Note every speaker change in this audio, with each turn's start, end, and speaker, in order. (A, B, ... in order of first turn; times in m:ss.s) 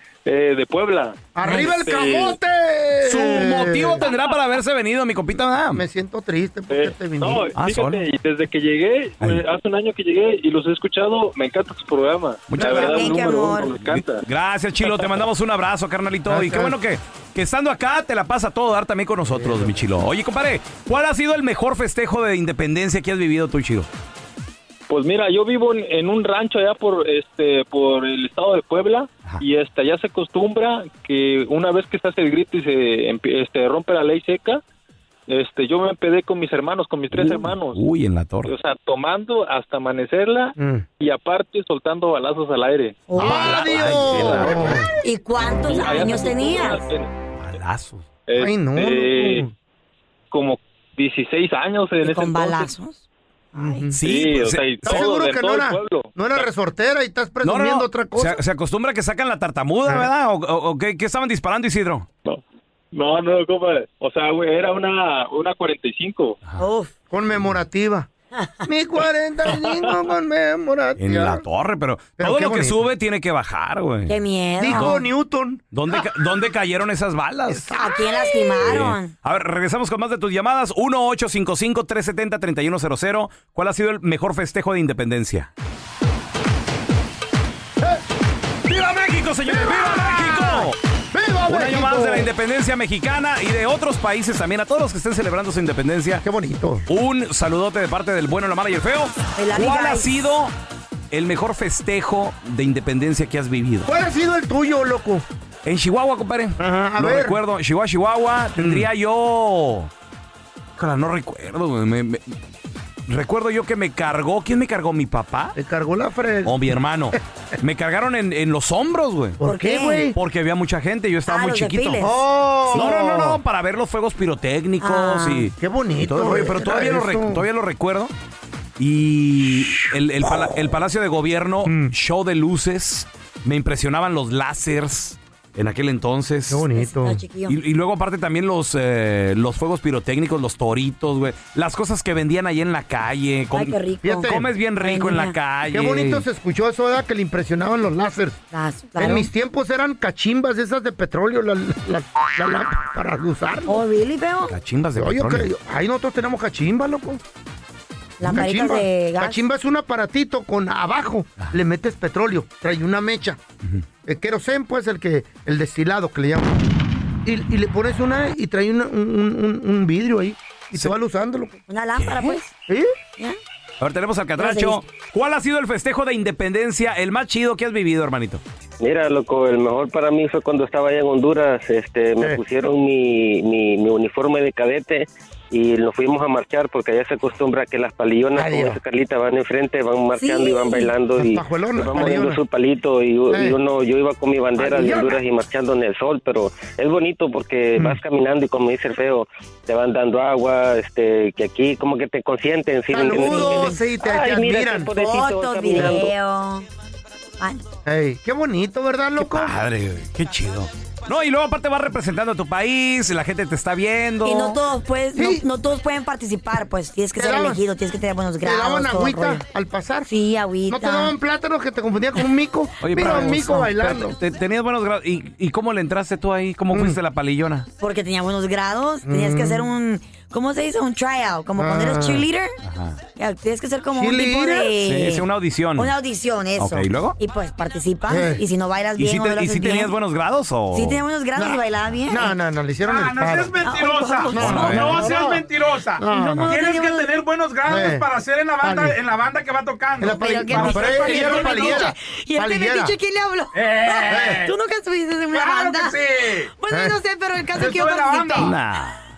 0:00.2-0:02.4 A
0:01.3-0:04.1 B
0:03.0-0:05.8 C
0:05.7-0:07.5 B
0:06.7-0:14.2 A
0:07.5-0:08.0 C
0:12.5-0:23.9 C
0:12.6-0:13.7 D
0:16.3-0:16.8 B
0:19.2-0:19.9 B
0:24.9-0:34.6 A
0:35.3-0:37.8 A
0:37.1-0:38.5 C
0:38.4-0:43.0 A
0:40.6-0:40.8 B
0:43.1-0:43.7 D
0:43.2-0:44.9 B
0:43.2-0:44.7 C
0:43.9-0:44.5 A
0:45.0-0:46.8 D
0:45.6-0:47.1 A
0:47.4-0:48.1 C
0:48.3-0:49.5 A
0:48.4-0:49.5 B
0:50.3-0:52.7 A
0:52.0-0:53.0 D
0:53.5-0:54.0 B
0:53.5-0:53.8 D
0:54.0-0:55.1 C
0:54.0-0:56.5 A
0:54.8-0:58.4 B
0:57.4-1:02.0 C
1:02.9-1:06.4 A
1:06.6-1:06.9 D
1:07.1-1:08.1 B
1:08.6-1:11.4 B
1:11.0-1:14.2 C
1:12.2-1:12.9 B
1:14.1-1:15.0 D
1:14.6-1:16.0 B
1:15.7-1:17.7 C
1:17.5-1:18.8 B
1:17.7-1:19.1 D
1:18.6-1:25.5 C
1:28.7-1:30.8 C
1:29.5-1:32.3 B
1:31.5-1:36.2 C
1:36.2-1:36.8 B
1:36.9-1:40.5 C
1:39.4-1:40.1 D
1:41.1-1:43.9 C
1:43.8-1:45.2 B
1:45.6-1:49.9 C
1:46.6-1:47.4 B
1:48.6-1:48.9 B
1:50.8-1:52.3 C
1:53.1-1:55.6 C
1:55.6-1:56.7 B
1:56.4-1:59.4 C
1:59.4-2:00.2 B
1:59.4-2:00.1 D
2:00.1-2:02.1 C
2:01.3-2:02.2 D
2:02.0-2:03.4 B
2:02.7-2:08.1 C
2:04.8-2:05.5 D
2:05.6-2:07.4 B
2:08.8-2:16.6 C
2:11.6-2:11.9 B
2:16.5-2:17.2 B
2:16.8-2:17.6 D
2:17.5-2:26.2 C
2:23.5-2:25.3 D
2:24.0-2:24.5 B
2:25.7-2:28.4 B
2:28.5-2:29.3 D
2:29.0-2:33.8 B
2:33.7-2:34.5 D
2:34.5-2:35.5 C
2:35.0-2:37.2 B
2:38.2-2:39.4 D
2:38.2-2:43.4 B
2:44.0-2:46.7 B
2:47.2-2:51.6 B
2:51.7-2:52.5 D
2:52.0-2:52.4 C
2:53.8-2:58.4 C
2:54.4-2:54.8 D
2:58.8-3:26.0 E
3:08.4-3:08.8 B
3:10.2-3:10.9 D
3:11.2-3:12.4 B
3:13.3-3:13.6 B
3:14.6-3:15.2 B
3:22.9-3:25.0 B
3:23.1-3:23.8 D
3:24.9-3:26.6 D
3:25.7-3:26.1 B
3:27.8-3:29.5 B
3:29.2-3:34.6 C
3:34.2-3:39.4 D
3:35.1-3:35.4 B
3:37.2-3:37.6 B
3:38.4-3:40.1 B
3:40.1-3:41.1 D
3:40.7-3:44.2 B
3:42.8-3:47.7 C
3:42.9-3:43.7 D
3:46.7-3:47.0 B
3:47.8-3:52.5 D
3:49.0-3:49.7 B
3:51.6-3:52.3 B
3:52.6-3:53.0 C
3:53.2-3:59.9 D
3:53.9-3:54.7 B
3:54.8-3:55.9 C
3:56.6-3:57.2 C
3:58.1-3:58.4 B
3:59.0-4:01.0 C
4:00.7-4:02.3 D
4:01.4-4:03.6 B
4:02.9-4:11.9 F
4:03.6-4:05.3 D
4:04.3-4:05.4 B
4:04.4-4:05.0 C
4:06.0-4:06.5 B
4:06.1-4:07.1 D
4:07.6-4:08.0 B
4:08.6-4:09.0 B
4:10.0-4:12.9 B
4:10.1-4:16.0 D
4:13.5-4:14.6 F
4:14.1-4:14.5 B
4:15.3-4:16.5 F
4:16.6-4:18.5 D
4:16.7-4:17.0 B
4:17.5-4:18.0 B
4:17.6-4:18.5 F
4:18.4-4:19.1 C